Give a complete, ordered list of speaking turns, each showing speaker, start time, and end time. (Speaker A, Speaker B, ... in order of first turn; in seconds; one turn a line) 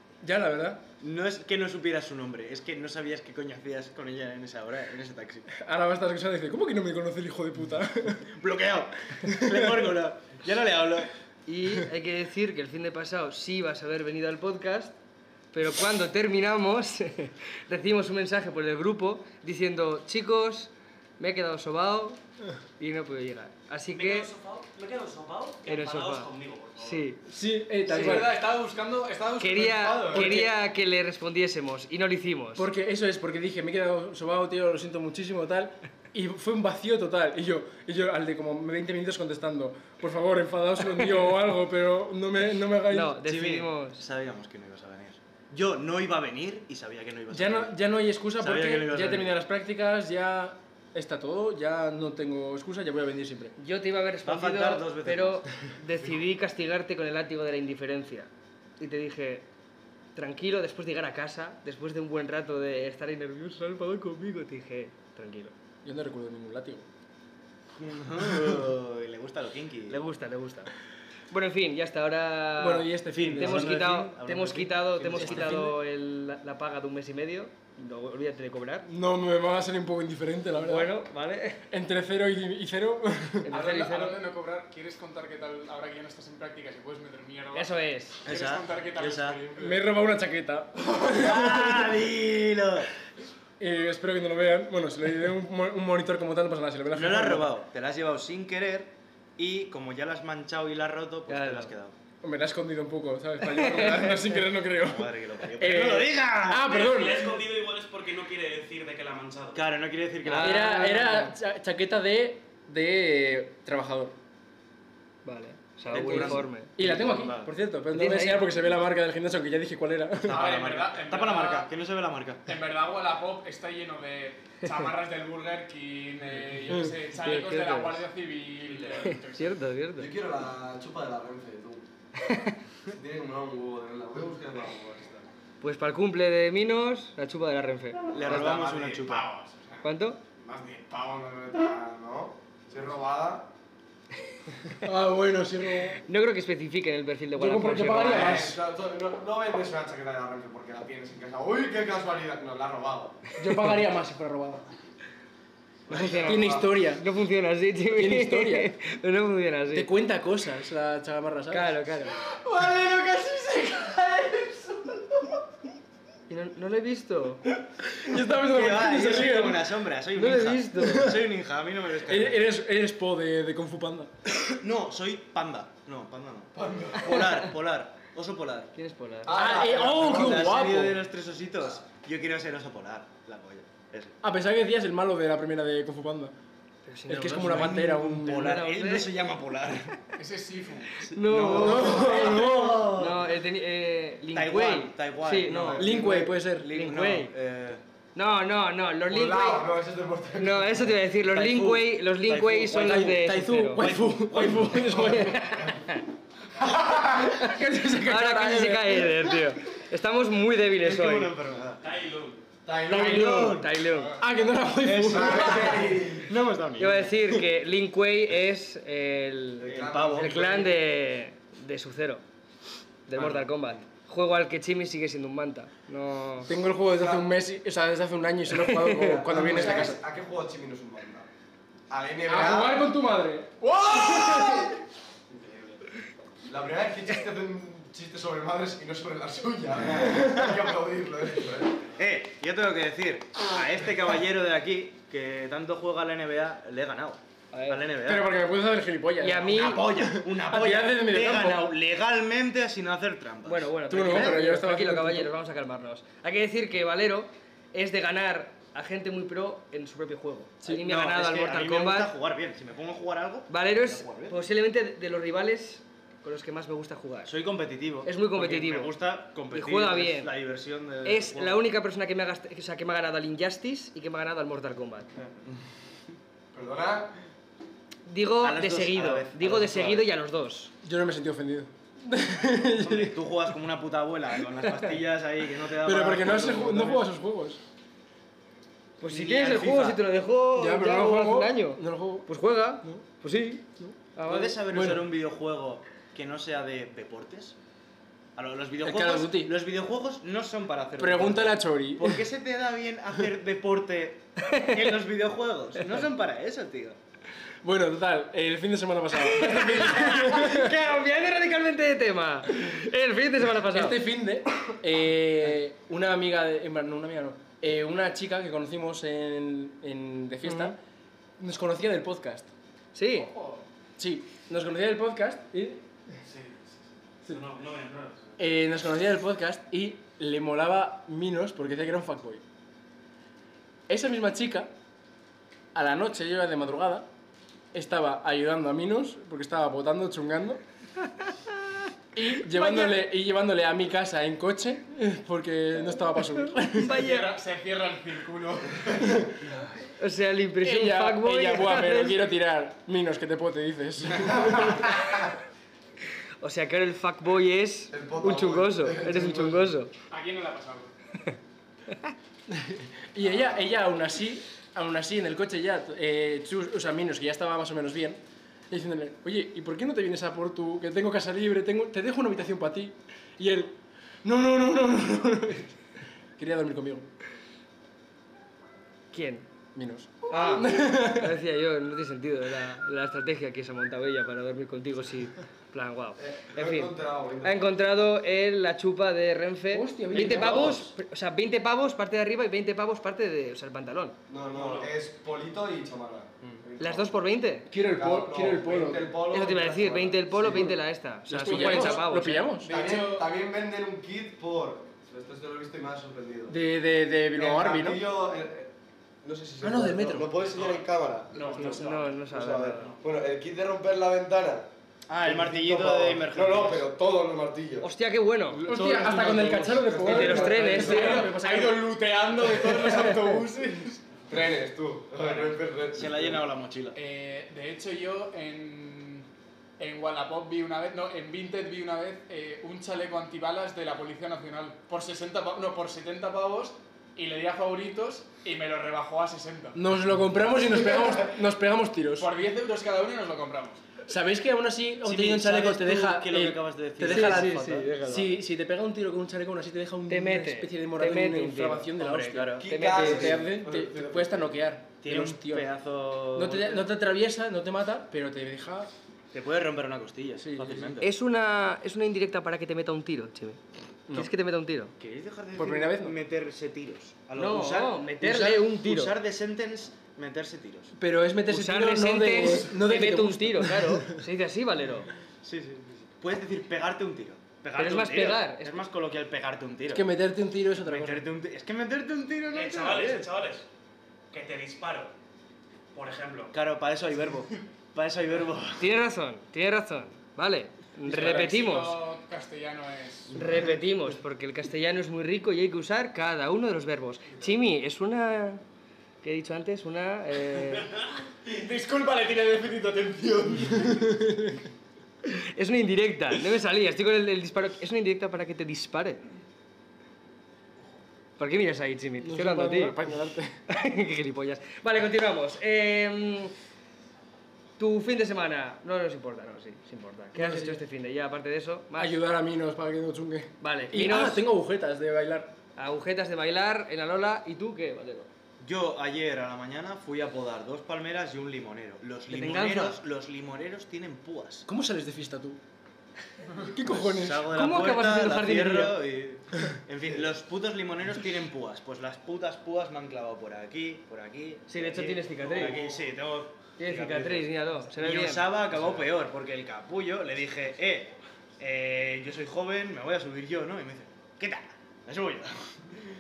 Speaker A: 0.2-0.8
Speaker B: 1.0-5.5
Speaker A: 5.6-8.3
Speaker B: 8.3-11.1
Speaker A: 9.2-9.9
Speaker C: 11.5-14.9
Speaker C: 15.5-22.2
Speaker C: 22.8-24.3
Speaker D: 23.9-27.1
Speaker C: 25.7-27.2
Speaker A: 27.3-28.4
Speaker E: 27.9-30.5
Speaker C: 27.9-28.2
Speaker C: 29.4-32.7
Speaker A: 32.6-43.2
Speaker C: 42.9-44.0
Speaker B: 43.2-47.8
Speaker A: 47.3-53.5
Speaker B: 48.4-49.4
Speaker C: 53.6-59.5
Speaker B: 54.2-55.5
Speaker C: 60.1-65.5
Speaker A: 65.8-66.8
Speaker B: 67.8-70.0
Speaker C: 69.9-70.7
Speaker C: 71.3-78.9
Speaker A: 72.6-74.0
Speaker B: 73.1-75.5
Speaker A: 75.1-75.8
Speaker A: 78.9-80.9
Speaker C: 80.6-81.7
Speaker A: 81.7-83.5
Speaker C: 83.4-84.2
Speaker E: 83.5-87.7
Speaker C: 87.5-88.2
Speaker E: 88.2-89.9
Speaker B: 88.3-89.4
Speaker A: 89.6-92.1
Speaker B: 91.1-92.9
Speaker A: 93.6-97.5
Speaker B: 96.9-102.0
Speaker C: 101.3-101.7
Speaker A: 102.2-107.4
Speaker C: 103.4-104.2
Speaker B: 103.7-104.2
Speaker B: 104.7-106.7
Speaker D: 106.7-109.6
Speaker B: 109.5-110.8
Speaker C: 110.3-111.3
Speaker A: 110.3-114.2
Speaker C: 115.2-116.7
Speaker B: 115.9-117.5
Speaker A: 116.0-120.4
Speaker C: 117.9-118.5
Speaker B: 120.2-122.4
Speaker E: 120.3-121.7
Speaker E: 122.5-129.6
Speaker C: 127.2-128.0
Speaker C: 129.0-130.1
Speaker F: 130.0-131.9
Speaker C: 132.2-132.6
Speaker F: 132.9-135.2
Speaker C: 135.6-138.0
Speaker B: 138.1-139.3
Speaker F: 138.3-138.9
Speaker E: 138.3-139.8
Speaker C: 139.8-140.2
Speaker F: 140.4-143.5
Speaker A: 144.8-146.0
Speaker C: 146.1-148.4
Speaker A: 147.3-148.6
Speaker F: 148.0-153.2
Speaker A: 153.4-154.6
Speaker B: 155.9-156.6
Speaker C: 155.9-159.9
Speaker F: 156.2-156.6
Speaker A: 156.2-157.0
Speaker A: 157.9-158.7
Speaker A: 159.7-165.0
Speaker C: 161.5-162.2
Speaker C: 166.3-167.4
Speaker A: 167.8-169.7
Speaker B: 168.3-172.4
Speaker C: 170.2-171.1
Speaker A: 170.8-171.2
Speaker A: 172.1-174.1
Speaker B: 174.5-178.7
Speaker F: 176.6-177.2
Speaker C: 178.8-179.4
Speaker F: 179.2-180.6
Speaker A: 179.3-181.0
Speaker B: 179.3-184.2
Speaker A: 184.2-186.3
Speaker C: 186.8-189.1
Speaker A: 187.1-188.5
Speaker B: 187.4-190.0
Speaker E: 190.2-191.0
Speaker C: 191.0-195.9
Speaker B: 191.1-193.3
Speaker F: 191.5-192.9
Speaker A: 191.5-192.9
Speaker B: 194.3-197.8
Speaker A: 195.7-196.7
Speaker C: 196.7-197.3
Speaker C: 198.2-199.7
Speaker F: 199.1-200.9
Speaker C: 200.4-203.9
Speaker B: 201.2-203.1
Speaker A: 202.7-205.4
Speaker B: 203.8-205.3
Speaker C: 204.7-206.1
Speaker F: 206.7-207.3
Speaker A: 207.1-209.5
Speaker C: 208.0-211.3
Speaker B: 210.8-211.8
Speaker D: 211.8-212.4
Speaker F: 212.7-213.6
Speaker B: 212.8-213.7
Speaker C: 212.9-214.2
Speaker A: 214.2-215.8
Speaker B: 214.8-217.1
Speaker F: 215.0-216.3
Speaker C: 216.8-222.2
Speaker F: 219.6-220.7
Speaker B: 219.7-220.7
Speaker C: 223.1-226.5
Speaker F: 223.2-223.4
Speaker A: 226.5-230.0
Speaker F: 226.9-227.3
Speaker C: 228.5-229.8
Speaker F: 229.0-231.3
Speaker F: 231.9-232.8
Speaker A: 232.3-234.7
Speaker B: 235.3-235.8
Speaker F: 236.5-241.8
Speaker B: 241.9-248.3
Speaker C: 247.5-247.9
Speaker A: 248.1-251.7
Speaker C: 249.2-249.9
Speaker B: 249.4-254.4
Speaker C: 253.4-262.1
Speaker A: 253.9-255.3
Speaker B: 260.8-264.4
Speaker C: 263.5-267.3
Speaker B: 267.3-271.7
Speaker C: 268.1-268.9
Speaker C: 269.5-270.3
Speaker C: 271.1-275.1
Speaker F: 276.5-277.1
Speaker C: 278.1-280.7
Speaker B: 278.4-280.1
Speaker A: 280.8-283.2
Speaker B: 282.8-287.1
Speaker A: 285.8-287.6
Speaker C: 289.0-294.9
Speaker B: 289.1-290.0
Speaker A: 290.6-292.3
Speaker B: 294.3-297.6
Speaker A: 294.7-295.1
Speaker B: 298.4-307.0
Speaker A: 298.8-299.5
Speaker A: 301.0-302.2
Speaker C: 304.4-304.7
Speaker A: 307.6-310.7
Speaker C: 309.3-314.0
Speaker A: 313.7-320.8
Speaker C: 320.4-320.7
Speaker A: 321.4-322.5
Speaker C: 322.9-323.3
Speaker E: 323.2-323.6
Speaker A: 324.0-325.8
Speaker D: 326.3-328.4
Speaker A: 328.4-332.4
Speaker A: 333.9-334.7
Speaker A: 335.7-337.1
Speaker A: 337.7-340.6
Speaker C: 341.1-341.8
Speaker A: 342.1-346.9
Speaker C: 342.4-343.0
Speaker C: 346.6-347.4
Speaker E: 346.8-349.1
Speaker C: 350.0-352.2
Speaker A: 350.6-355.2
Speaker C: 356.4-359.9
Speaker F: 357.9-359.7
Speaker E: 360.1-360.9
Speaker A: 362.5-375.7
Speaker A: 376.4-377.1
Speaker C: 379.1-379.5
Speaker A: 379.8-381.4
Speaker C: 380.3-394.2
Speaker F: 386.2-387.7
Speaker A: 389.7-390.9
Speaker F: 390.1-390.9
Speaker F: 394.3-397.2
Speaker D: 394.5-394.9
Speaker C: 396.8-397.7
Speaker A: 397.7-399.1
Speaker F: 397.9-400.8
Speaker C: 399.3-402.6
Speaker A: 401.3-402.7
Speaker E: 401.5-402.0
Speaker E: 402.6-403.3
Speaker F: 402.7-406.6
Speaker A: 406.5-408.0
Speaker F: 407.3-414.7
Speaker A: 409.6-410.4
Speaker E: 411.3-412.1
Speaker C: 411.6-412.9
Speaker B: 415.1-416.9
Speaker F: 415.2-417.9
Speaker C: 417.8-418.7
Speaker F: 418.6-421.3
Speaker A: 418.6-421.8
Speaker C: 420.0-421.4
Speaker E: 420.7-424.0
Speaker F: 424.3-426.4
Speaker B: 425.9-427.0
Speaker E: 426.9-429.3
Speaker E: 429.8-439.8
Speaker A: 439.8-442.3
Speaker E: 442.1-443.8
Speaker A: 444.1-455.7
Speaker B: 445.0-448.3
Speaker C: 447.1-448.2
Speaker C: 450.1-452.0
Speaker B: 452.0-453.4
Speaker F: 452.6-454.6
Speaker C: 452.6-453.4
Speaker B: 455.0-456.9
Speaker A: 456.4-458.9
Speaker B: 459.3-461.1
Speaker A: 460.4-460.9
Speaker C: 461.0-464.9
Speaker B: 465.0-470.9
Speaker A: 465.6-466.1
Speaker C: 467.4-469.1
Speaker A: 471.0-474.2
Speaker C: 471.5-475.1
Speaker B: 475.4-480.1
Speaker C: 477.8-478.8
Speaker A: 479.9-481.3
Speaker B: 480.8-483.3
Speaker D: 482.5-483.7
Speaker D: 484.3-485.1
Speaker D: 485.9-486.5
Speaker B: 486.5-488.9
Speaker C: 488.8-492.0
Speaker E: 491.1-493.4
Speaker C: 493.3-498.6
Speaker C: 499.2-500.9
Speaker E: 501.4-504.1
Speaker C: 505.3-509.2
Speaker C: 511.4-513.0
Speaker A: 512.2-513.5
Speaker C: 513.7-516.5
Speaker C: 517.8-522.2
Speaker A: 520.4-520.8
Speaker A: 522.0-525.5
Speaker C: 523.6-524.5
Speaker C: 525.8-528.3
Speaker B: 528.6-534.7
Speaker C: 532.3-533.0
Speaker A: 534.7-535.6
Speaker A: 536.6-537.5
Speaker B: 536.8-555.8
Speaker C: 537.5-539.0
Speaker C: 544.7-545.8
Speaker D: 545.4-546.1
Speaker C: 546.8-548.5